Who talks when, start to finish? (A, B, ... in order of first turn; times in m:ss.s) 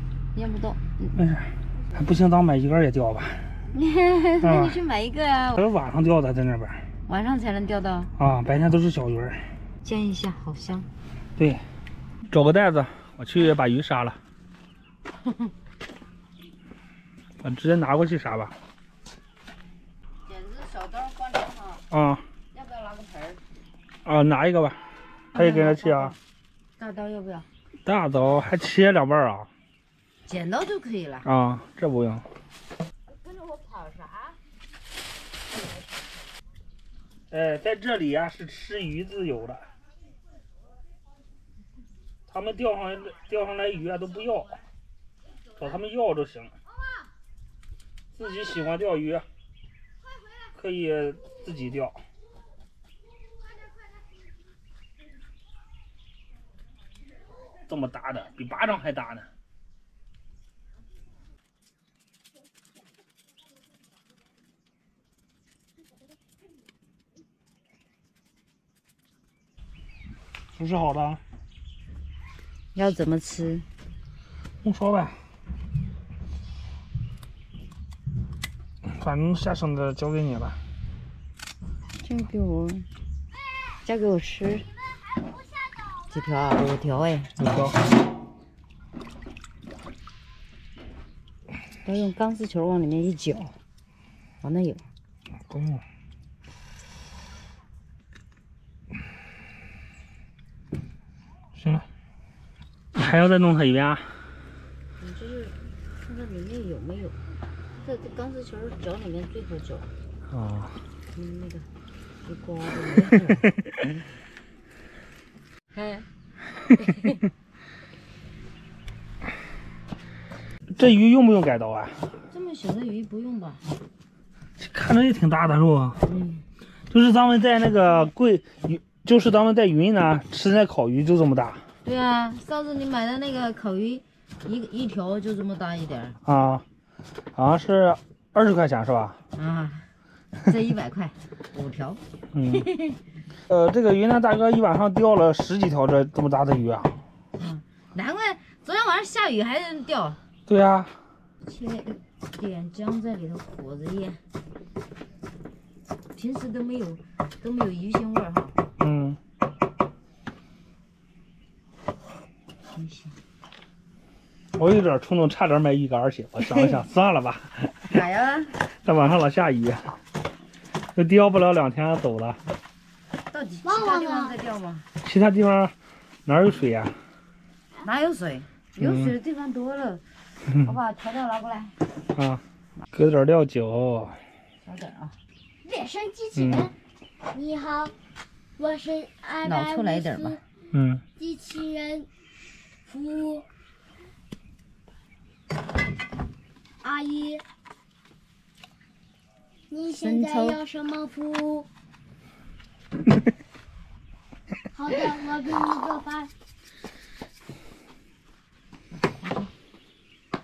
0:00.3-0:01.1 A
0:01.1-0:03.4 B
0:03.7-0:05.6 A
0:04.4-0:04.8 B
0:05.6-0:06.8 B
0:07.1-0:08.1 A
0:08.2-0:09.4 B
0:09.8-0:10.9 A
0:11.4-0:11.6 B
0:12.3-0:14.2 B
0:17.4-0:18.5 B
0:20.2-0:21.8 A
0:21.9-0:22.2 B
0:22.5-0:23.4 A
0:24.0-0:24.8 B
0:25.3-0:26.2 A
0:25.3-0:26.1 B
0:26.8-0:27.5 A
0:27.8-0:29.5 B
0:30.2-0:31.3 A
0:31.2-0:32.2 B
0:33.1-0:34.4 A
0:35.5-0:36.2 A
0:37.3-0:39.6 B
0:42.3-0:44.6 B
0:45.6-0:46.5 B
0:48.1-0:49.2 B
0:50.5-0:52.0 B
0:57.7-0:59.3 B
1:10.6-1:11.2 B
1:12.7-1:13.6 A
1:14.6-1:15.2 B
1:18.8-1:20.6 B
1:22.0-1:22.9 A
1:23.8-1:24.7 A
1:26.1-1:27.3 A
1:27.4-1:27.7 B
1:31.8-1:33.5 A
1:34.4-1:34.8 A
1:35.5-1:35.8 B
1:41.6-1:41.8 B
1:42.9-1:44.1 B
1:45.0-1:47.2 A
1:47.8-1:49.9 A
1:50.3-1:50.8 B
1:51.1-1:51.6 A
1:52.2-1:53.5 A
1:55.7-1:56.0 A
1:56.7-1:57.2 A
2:00.7-2:02.0 B
2:02.3-2:03.6 A
2:04.6-2:06.0 B
2:06.0-2:06.4 A
2:06.9-2:11.6 B
2:11.8-2:16.2 A
2:16.2-2:16.6 B
2:17.4-2:19.2 B
2:19.3-2:19.9 A
2:20.4-2:22.0 A
2:22.3-2:22.7 B
2:22.5-2:23.0 A
2:23.5-2:26.9 B
2:27.4-2:30.2 A
2:30.5-2:30.9 B
2:31.4-2:34.2 A
2:36.1-2:38.5 A
2:38.8-2:39.2 B
2:42.7-2:43.1 A
2:44.5-2:48.0 B
2:47.9-2:48.6 A
2:48.7-2:49.9 B
2:51.0-2:52.4 B
2:53.3-2:54.8 A
2:53.6-2:54.3 C
2:55.0-2:55.7 B
2:56.2-2:56.9 B
2:57.8-3:01.8 A
2:58.8-2:59.1 B
3:02.1-3:04.2 B
3:04.6-3:05.2 A
3:05.6-3:06.7 C
3:06.4-3:06.7 B
3:07.3-3:07.9 C
3:08.6-3:10.4 C
3:09.4-3:10.4 A
3:10.7-3:11.0 B
3:11.2-3:12.1 C
3:12.9-3:13.4 C
3:16.8-3:17.4 C
3:19.7-3:21.7 C
3:20.0-3:20.6 A
3:24.8-3:26.3 C
3:29.1-3:29.5 A